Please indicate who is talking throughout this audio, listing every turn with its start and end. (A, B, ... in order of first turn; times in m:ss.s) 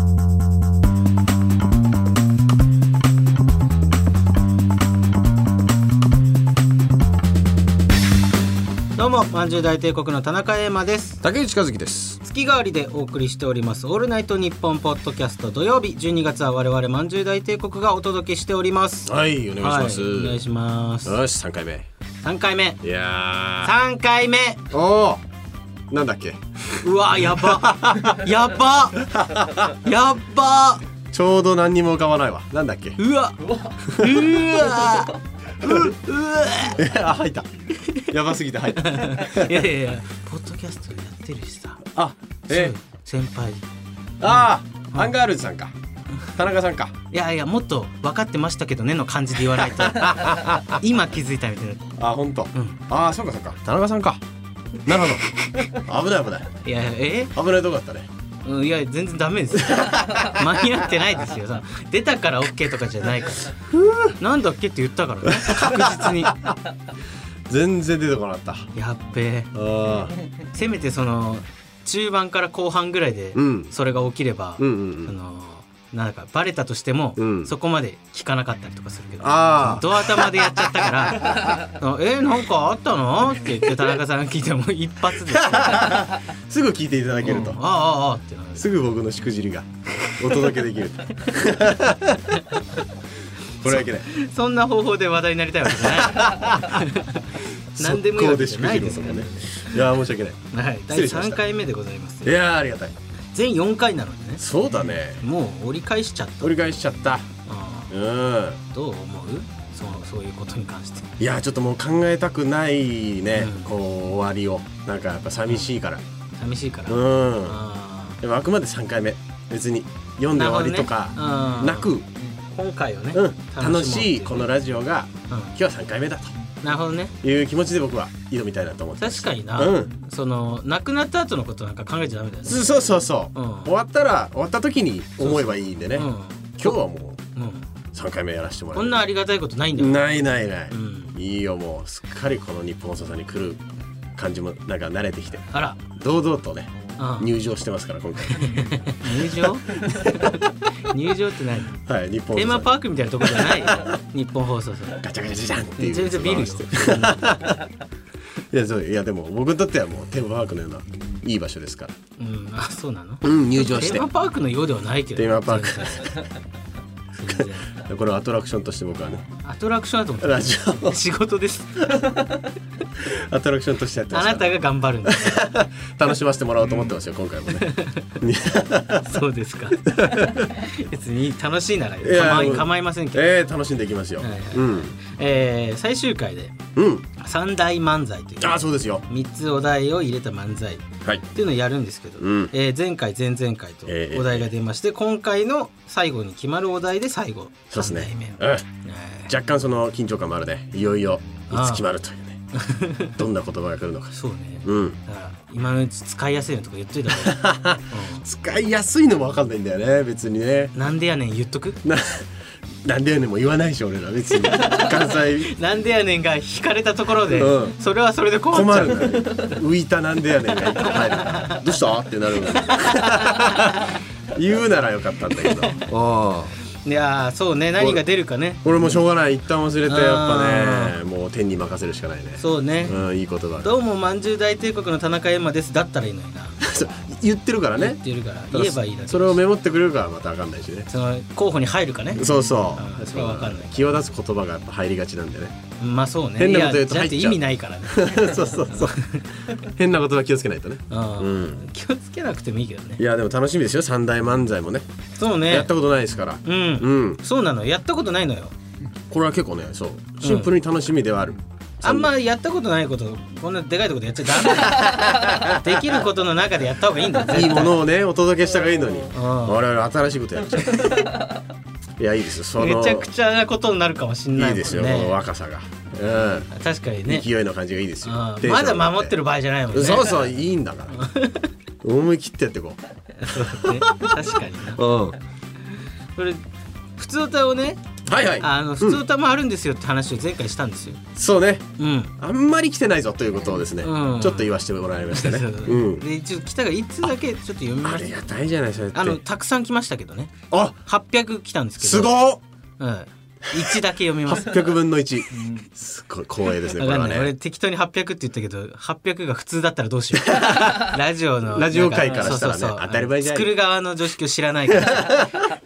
0:09.0-0:11.2 A
0:11.2-0:12.2 B
0:12.2-0:21.1 A
0:19.0-0:20.4 B
0:21.0-0:21.9 B
0:22.2-0:22.8 A
0:22.8-0:23.7 B
0:23.6-0:24.6 A
0:24.7-0:25.2 B
0:25.9-0:28.2 B
0:26.8-0:29.1 A
0:29.0-0:29.7 B
0:29.7-0:30.8 A
0:31.1-0:33.0 B
0:33.0-0:36.8 A
0:33.9-0:35.0 B
0:35.6-0:35.9 B
0:36.7-0:39.7 B
0:38.8-0:41.8 A
0:41.9-0:42.7 B
0:42.5-0:43.6 A
0:44.2-0:45.7 B
0:44.2-0:45.1 A
0:46.3-0:46.9 B
0:47.1-0:51.9 A
0:49.6-0:50.8 B
0:52.0-0:54.2 B
0:52.5-0:52.8 A
0:54.8-0:56.5 B
0:55.3-0:55.7 A
0:56.6-0:57.3 A
0:57.3-0:58.1 B
0:58.4-1:03.5 A
0:59.6-1:00.4 B
1:03.7-1:04.1 B
1:04.2-1:06.4 A
1:05.2-1:06.6 B
1:07.5-1:08.7 B
1:08.7-1:09.5 A
1:09.5-1:10.1 B
1:10.5-1:26.1 A
1:13.3-1:13.7 B
1:14.6-1:15.1 B
1:17.2-1:17.5 B
1:19.2-1:21.4 B
1:25.3-1:27.6 B
1:27.2-1:28.7 A
1:28.6-1:32.4 B
1:33.6-1:34.1 B
1:33.6-1:39.8 A
1:35.8-1:36.8 B
1:37.7-1:41.4 B
1:40.5-1:42.4 A
1:42.2-1:43.0 B
1:43.3-1:44.4 A
1:44.4-1:45.2 B
1:45.2-1:46.6 A
1:46.4-1:47.3 B
1:47.5-1:47.9 A
1:47.9-1:48.6 B
1:48.7-1:51.1 A
1:51.2-1:56.0 B
1:53.3-1:53.7 A
1:56.4-1:58.2 A
1:56.9-1:57.6 B
1:58.2-2:02.1 B
2:00.3-2:01.9 A
2:02.5-2:04.5 A
2:03.1-2:06.4 B
2:05.3-2:05.5 A
2:06.6-2:07.1 A
2:07.2-2:10.0 B
2:09.0-2:12.7 A
2:12.4-2:17.2 B
2:13.3-2:13.7 A
2:15.2-2:16.8 A
2:17.3-2:17.6 A
2:17.9-2:19.1 B
2:18.7-2:21.1 A
2:19.7-2:23.6 B
2:24.2-2:30.5 B
2:25.5-2:25.8 A
2:27.0-2:27.3 A
2:28.3-2:31.8 A
2:31.8-2:33.9 B
2:32.3-2:35.0 A
2:34.9-2:37.6 B
2:35.8-2:37.4 A
2:38.5-2:41.9 B
2:42.2-2:46.2 A
2:43.2-2:44.0 B
2:45.2-2:46.3 B
2:47.1-2:47.8 A
2:47.2-2:49.2 B
2:49.4-2:52.1 A
2:50.2-2:51.0 B
2:53.0-2:59.2 B
2:54.1-2:55.5 A
2:57.6-2:58.1 A
2:59.0-2:59.9 A
2:59.8-3:00.5 B
3:00.5-3:03.3 A
3:02.0-3:04.9 B
3:04.2-3:06.6 A
3:06.7-3:07.1 B
3:07.2-3:19.3 A
3:08.4-3:09.0 B
3:12.2-3:12.5 B
3:13.8-3:14.5 B
3:17.7-3:18.6 B
3:19.3-3:22.4 B
3:21.5-3:21.8 A
3:22.6-3:23.1 A
3:23.1-3:25.0 B
3:24.1-3:28.2 A
3:27.1-3:30.7 B
3:30.7-3:31.8 A
3:31.8-3:32.3 B
3:32.8-3:35.5 B
3:34.3-3:39.5 A
3:37.3-3:37.8 B
3:38.5-3:46.5 B
3:41.3-3:41.6 A
3:42.7-3:43.9 A
3:46.8-3:49.0 A
3:47.8-3:48.0 B
3:48.6-3:53.8 B
3:49.9-3:51.0 A
3:52.4-3:53.0 A
3:53.6-3:56.6 A
3:56.6-3:58.0 B
3:57.8-3:59.4 A
3:58.5-4:00.9 B
4:00.9-4:04.0 A
4:02.1-4:05.6 B
4:05.8-4:09.3 A
4:06.4-4:11.6 B
4:10.9-4:13.0 A
4:13.0-4:14.9 B
4:15.2-4:15.7 A
4:15.5-4:17.2 B
4:16.4-4:18.5 A
4:19.1-4:22.1 B
4:20.2-4:20.5 A
4:21.8-4:27.8 A
4:24.8-4:25.8 B
4:27.3-4:31.2 B
4:29.1-4:29.6 A
4:32.0-4:33.1 B
4:32.6-4:35.2 A
4:34.4-4:36.5 B
4:36.5-4:37.2 A
4:37.1-4:39.2 B
4:38.0-4:40.4 A
4:39.7-4:41.1 B
4:40.9-4:41.5 A
4:41.8-4:44.2 B
4:43.2-4:44.8 A
4:44.7-4:45.2 B
4:45.7-4:46.4 A
4:47.0-4:47.8 A
4:48.0-4:49.0 B
4:48.4-4:51.0 A
4:51.2-4:56.0 B
4:51.8-4:52.1 A
4:53.8-4:54.6 A
4:55.1-4:58.2 A
4:57.8-4:59.2 B
4:58.9-5:02.2 A
5:00.5-5:00.8 B
5:01.8-5:02.4 B
5:02.8-5:04.6 A
5:04.2-5:07.3 B
5:06.8-5:15.4 A
5:10.2-5:11.0 B
5:11.5-5:13.6 B
5:14.7-5:15.3 B